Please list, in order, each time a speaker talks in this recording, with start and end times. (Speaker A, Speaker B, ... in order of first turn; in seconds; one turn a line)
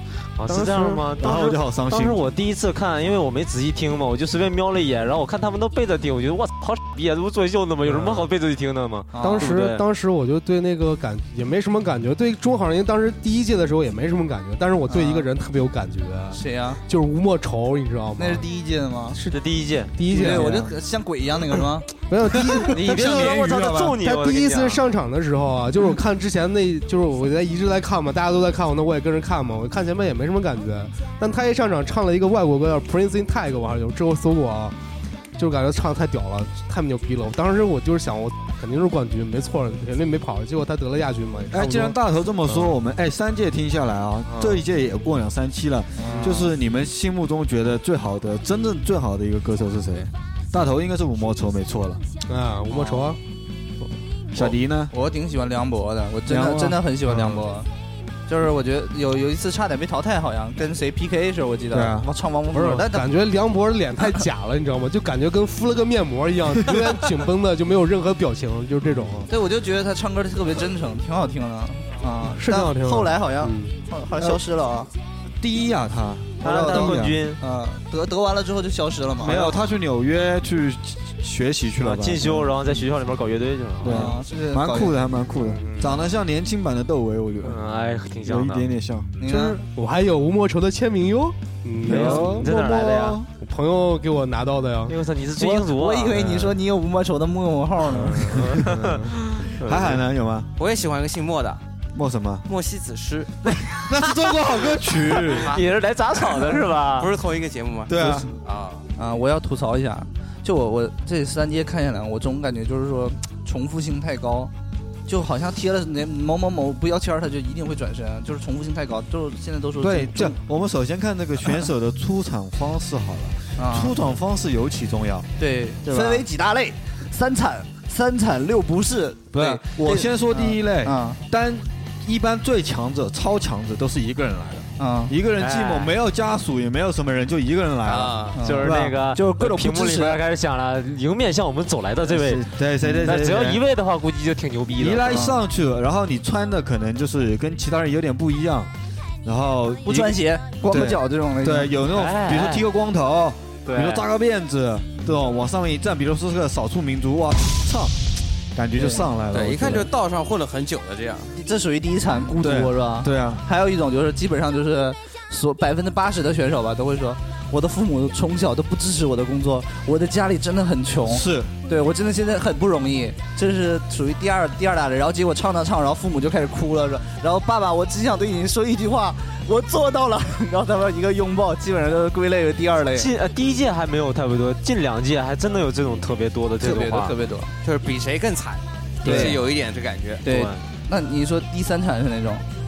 Speaker A: 0.4-9.8
Speaker B: 0.5-1.1
Speaker C: 1.2-2.2
Speaker B: 7.8-8.3
Speaker D: 9.1-9.5
Speaker B: 9.2-18.4
Speaker D: 14.9-15.3
Speaker D: 16.3-16.8
Speaker D: 18.2-19.2
Speaker A: 19.3-20.5
Speaker B: 19.9-20.7
Speaker D: 20.1-21.9
Speaker C: 20.2-20.5
Speaker B: 22.0-23.4
Speaker D: 22.5-22.7
Speaker A: 22.6-24.8
Speaker C: 22.8-24.0
Speaker B: 24.0-34.8
Speaker B: 35.4-42.0
Speaker C: 41.5-52.0
Speaker D: 46.0-46.5
Speaker B: 52.3-53.2
Speaker D: 52.7-53.1
Speaker C: 54.3-54.9
Speaker D: 54.4-57.7
Speaker C: 56.3-57.3
Speaker D: 58.3-63.1
Speaker C: 61.7-62.1
Speaker B: 62.5-69.3
Speaker D: 69.3-74.9
Speaker B: 72.3-74.3
Speaker C: 75.4-77.2
Speaker A: 76.4-77.4
Speaker D: 76.4-79.6
Speaker C: 79.2-82.5
Speaker A: 81.8-84.1
Speaker C: 83.8-87.6
Speaker D: 83.8-84.9
Speaker A: 85.4-86.1
Speaker A: 87.4-88.7
Speaker C: 88.2-89.1
Speaker D: 89.2-89.6
Speaker B: 89.2-92.4
Speaker A: 91.8-93.2
Speaker C: 91.8-93.3
Speaker B: 93.4-95.0
Speaker A: 94.9-96.4
Speaker D: 95.4-98.5
Speaker A: 98.0-100.0
Speaker B: 98.6-99.1
Speaker C: 99.6-100.5
Speaker E: 100.6-101.6
Speaker C: 101.9-102.5
Speaker E: 102.5-103.3
Speaker C: 103.4-105.5
Speaker E: 105.2-105.7
Speaker A: 105.4-107.1
Speaker E: 107.0-108.8
Speaker C: 107.9-108.3
Speaker D: 109.0-114.5
Speaker D: 115.1-120.4
Speaker C: 119.8-125.3
Speaker D: 123.6-124.0
Speaker D: 125.4-131.2
Speaker C: 125.8-126.3
Speaker C: 129.3-138.9
Speaker D: 134.8-135.1
Speaker A: 135.4-135.9
Speaker E: 137.8-138.3
Speaker D: 138.3-140.2
Speaker A: 138.4-145.2
Speaker C: 142.0-143.6
Speaker C: 144.8-148.7
Speaker D: 145.1-145.4
Speaker C: 149.2-157.9
Speaker D: 149.8-151.7
Speaker A: 151.9-152.7
Speaker A: 153.7-154.0
Speaker C: 158.5-159.9
Speaker D: 158.8-159.1
Speaker E: 159.3-161.3
Speaker D: 161.3-183.1
Speaker C: 162.4-163.4
Speaker C: 171.0-171.5
Speaker A: 182.9-187.1
Speaker D: 186.6-187.5
Speaker E: 187.6-190.2
Speaker D: 189.0-189.4
Speaker A: 189.0-189.3
Speaker D: 190.2-192.4
Speaker A: 190.2-190.6